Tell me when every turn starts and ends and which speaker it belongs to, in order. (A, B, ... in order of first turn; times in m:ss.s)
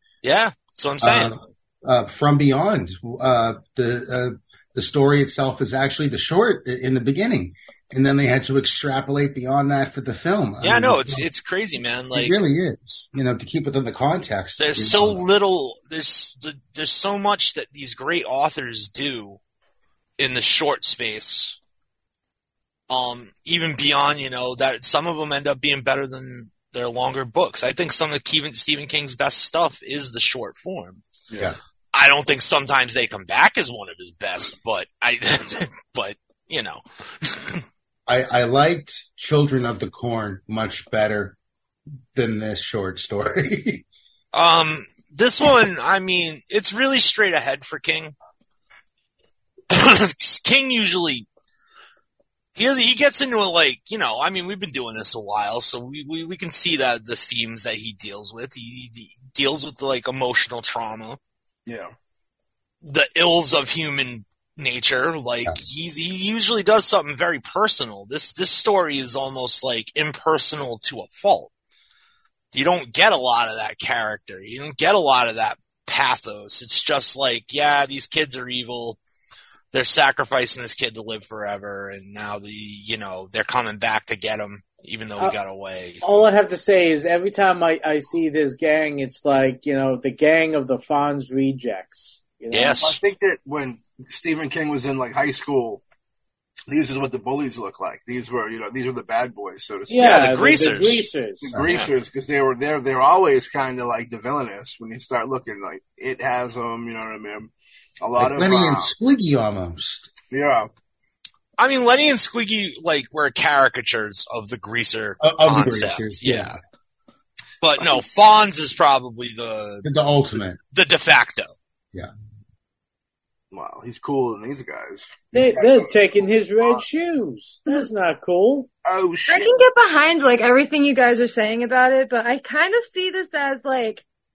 0:00.2-0:01.3 A
0:01.0-0:11.2 B
0:10.6-0:12.4 A
0:12.1-0:15.2 B
0:14.6-0:19.4 A
0:20.2-0:21.6 A
0:22.9-0:31.0 A
0:31.9-0:37.6 A
0:38.1-0:41.4 B
0:42.1-0:43.8 B
0:44.3-0:48.1 A
0:49.7-0:51.2 A
0:52.5-1:01.2 A
1:01.6-1:01.9 C
1:02.8-1:11.5 A
1:12.5-1:19.0 A
1:19.7-1:26.0 A
1:26.0-1:32.8 D
1:32.5-1:33.0 A
1:32.8-1:35.8 C
1:36.7-1:40.2 C
1:39.9-1:41.5 D
1:40.0-1:41.0 A
1:41.4-1:48.9 C
1:48.2-1:50.1 B
1:50.3-1:50.7 C
1:51.6-1:56.6 A
1:55.2-1:56.6 B
1:57.6-1:59.9 A
1:59.8-2:00.6 B
2:00.7-2:01.5 A
2:03.5-2:06.8 C
2:05.3-2:08.7 D
2:08.8-2:09.6 C
2:09.3-2:14.0 E